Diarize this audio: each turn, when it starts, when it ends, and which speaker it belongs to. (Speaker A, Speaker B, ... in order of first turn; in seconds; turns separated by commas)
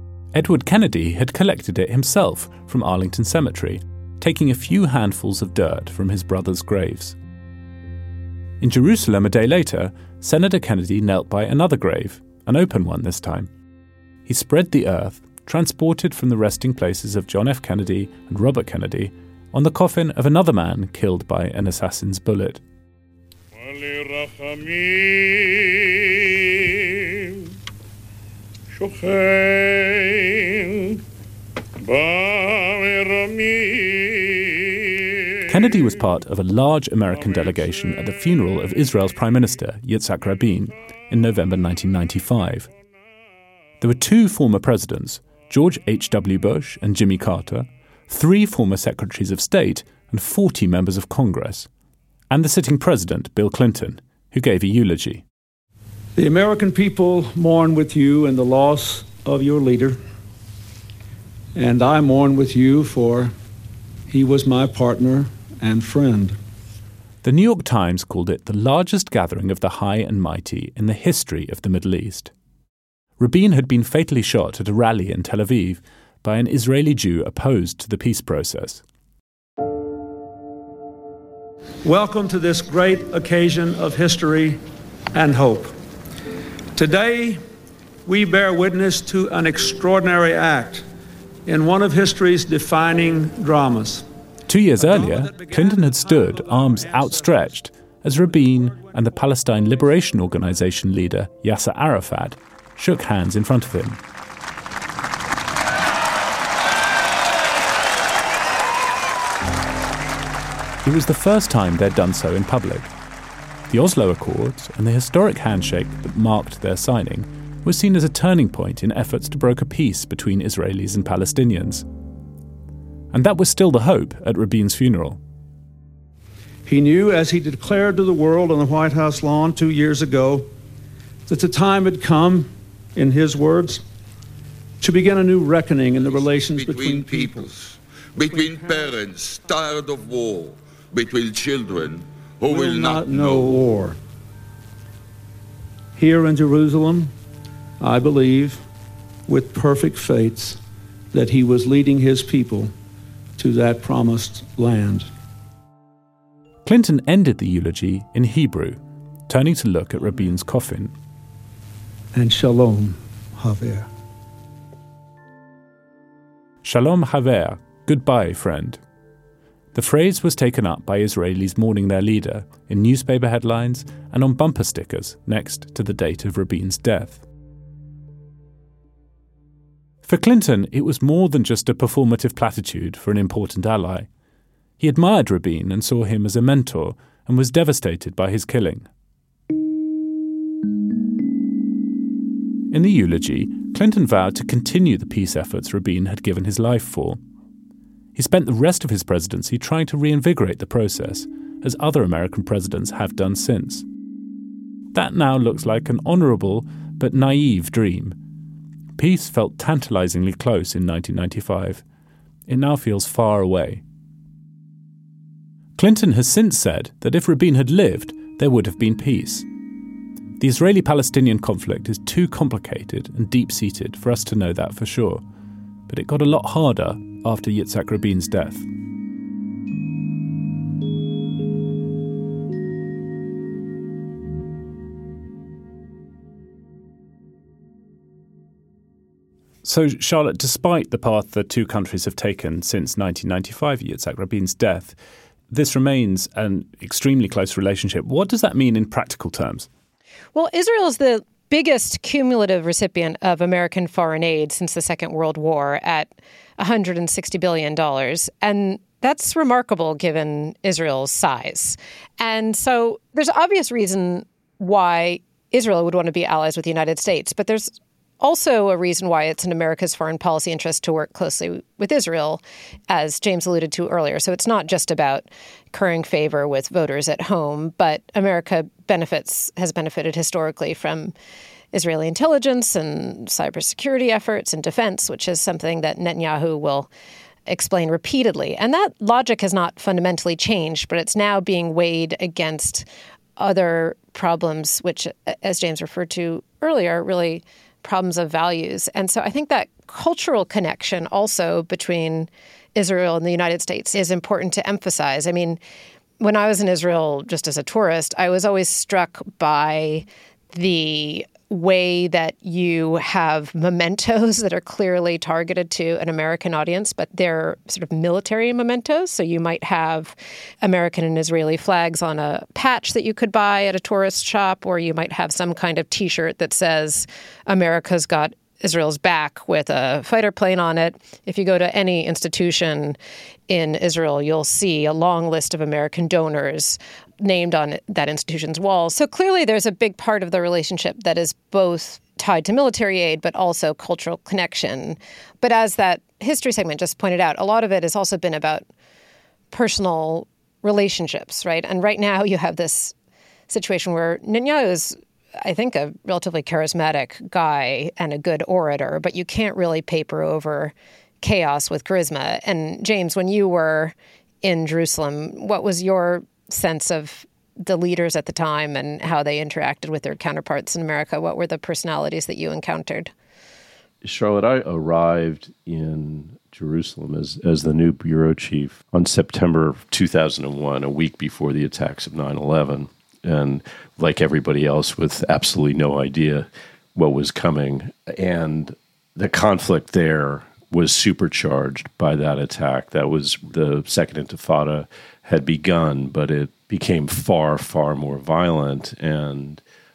Speaker A: 0.3-7.2, Speaker A: 8.6-13.5, Speaker A: 14.3-22.6, Speaker A: 35.5-42.7, Speaker A: 43.8-51.7, Speaker A: 52.3-55.2, Speaker B: 56.1-60.0, Speaker B: 61.5-63.3, Speaker B: 64.1-66.4, Speaker A: 67.2-72.3, Speaker A: 73.2-78.8, Speaker B: 81.8-84.6, Speaker B: 85.1-85.7, Speaker B: 86.7-87.4, Speaker B: 88.0-90.8, Speaker B: 91.5-94.1, Speaker A: 94.5-104.0, Speaker B: 94.8-95.5, Speaker A: 110.8-112.9, Speaker A: 113.7-121.8, Speaker A: 123.1-125.2, Speaker B: 126.6-130.5, Speaker B: 131.3-133.8, Speaker B: 134.8-137.5, Speaker C: 136.0-143.7, Speaker B: 142.5-144.0, Speaker B: 145.9-147.1, Speaker B: 147.8-148.6, Speaker B: 149.3-150.6, Speaker B: 151.1-152.7, Speaker B: 153.4-155.1, Speaker A: 156.6-160.9, Speaker B: 162.1-163.9, Speaker A: 166.6-168.8, Speaker A: 169.7-177.2, Speaker A: 180.0-184.1, Speaker A: 184.8-188.9, Speaker A: 192.7-197.2, Speaker A: 198.1-203.8, Speaker A: 204.9-208.2, Speaker A: 209.0-211.8, Speaker A: 212.5-213.8, Speaker A: 215.8-219.4, Speaker A: 220.4-225.2, Speaker A: 225.9-228.6, Speaker A: 239.6-245.0, Speaker A: 245.5-249.7, Speaker D: 250.3-281.1, Speaker D: 281.7-286.9, Speaker D: 287.5-292.9, Speaker D: 293.4-305.6, Speaker D: 306.2-333.0, Speaker D: 333.5-348.6, Speaker D: 349.5-352.9, Speaker D: 353.5-373.1, Speaker E: 374.0-399.6